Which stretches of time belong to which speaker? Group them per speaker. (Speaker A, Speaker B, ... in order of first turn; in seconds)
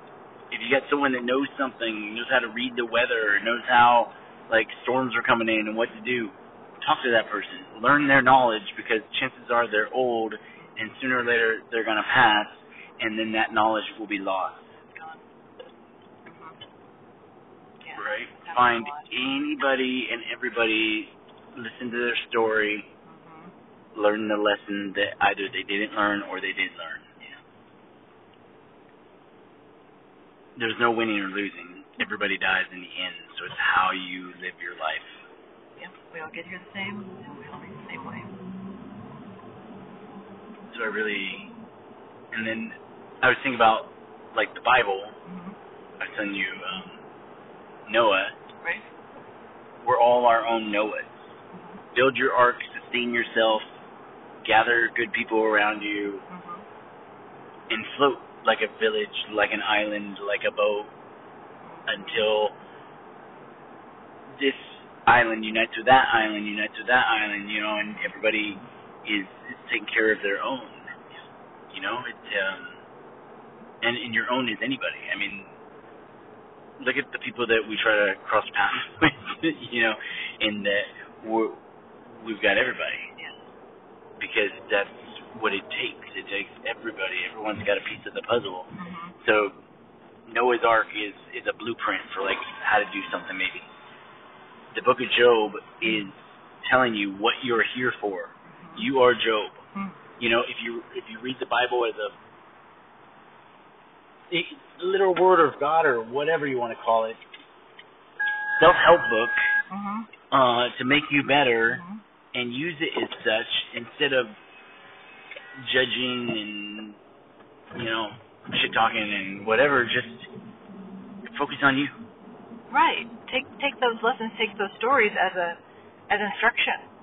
Speaker A: 0.5-14.7, 17.9-22.9, 23.9-27.2, 30.6-35.1, 40.7-41.5, 42.3-45.1, 46.0-47.0, 47.9-48.4, 49.8-51.2, 51.9-53.7, 54.4-56.2, 57.7-60.9, 61.9-62.5, 64.4-70.9, 71.7-72.8, 73.8-75.5, 76.8-81.6, 82.2-83.1, 84.2-89.6, 90.3-93.7, 94.7-99.6, 100.2-102.2, 104.3-107.2, 108.6-109.4, 110.3-111.8, 112.3-114.4, 115.6-117.0, 117.7-120.3, 121.3-121.9
Speaker B: 14.7-15.2, 16.3-16.6, 17.8-19.2, 23.1-23.5, 35.8-38.4, 45.3-45.6, 51.5-51.8, 56.3-56.6, 61.6-62.3, 88.8-89.2, 98.5-98.9, 99.7-100.0, 109.7-110.1, 111.7-112.0, 122.7-126.9